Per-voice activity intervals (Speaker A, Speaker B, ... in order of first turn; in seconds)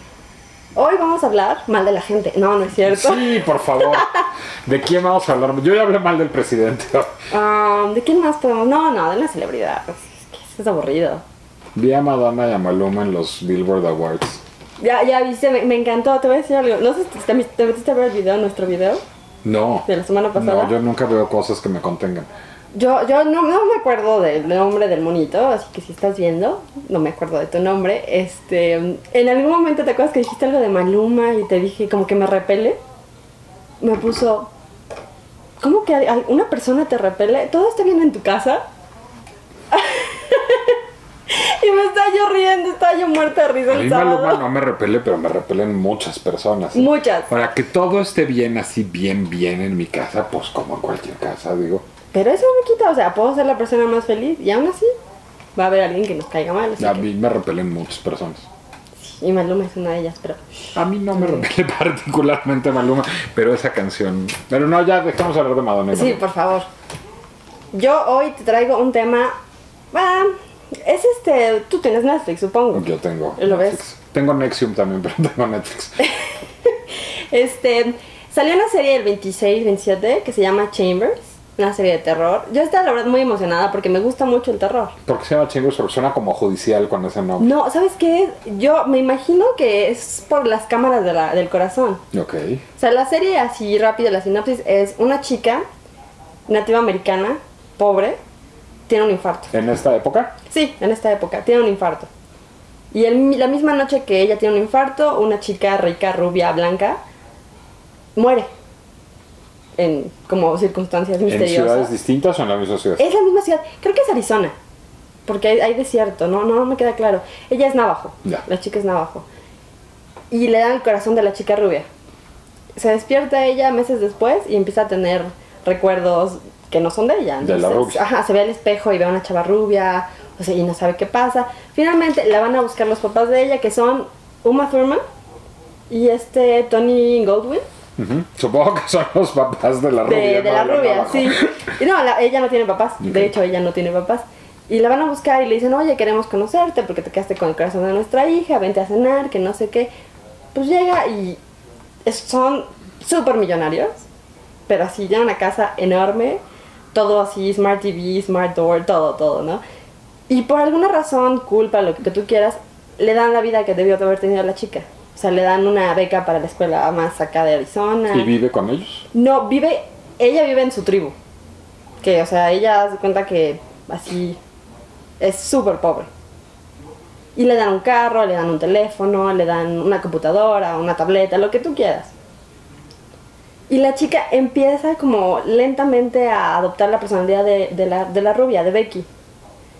Speaker A: 0.7-4.2, 7.3-11.2, 14.8-19.0, 19.8-20.8, 22.7-32.8, 33.8-34.5, 35.6-38.6, 39.7-44.4, 46.7-47.3, 52.1-54.9, 55.5-57.0, 59.0-60.4, 61.1-61.4, 65.9-66.7, 67.7-69.3, 69.9-72.8, 73.4-73.8, 76.0-84.9, 87.4-92.0, 92.8-95.6, 96.5-98.2, 98.9-99.5, 100.5-102.1, 102.9-107.0, 108.1-108.5, 109.8-111.9, 113.0-114.5, 115.2-119.2, 120.3-121.8, 122.8-135.0, 135.9-137.6, 140.0-149.9, 150.5-151.4, 152.1-154.1, 154.7-156.4, 156.9-159.6, 160.3-168.3, 169.1-171.1, 172.0-174.4, 175.2-176.1, 177.3-182.1, 183.7-189.1
Speaker B: 2.9-7.1, 11.8-14.4, 19.4-22.3, 43.7-51.8, 56.8-58.5, 60.7-66.2, 72.7-76.0, 85.0-87.5, 92.1-92.6, 99.5-100.3, 111.2-113.0, 127.4-128.0, 138.0-141.6, 168.1-169.1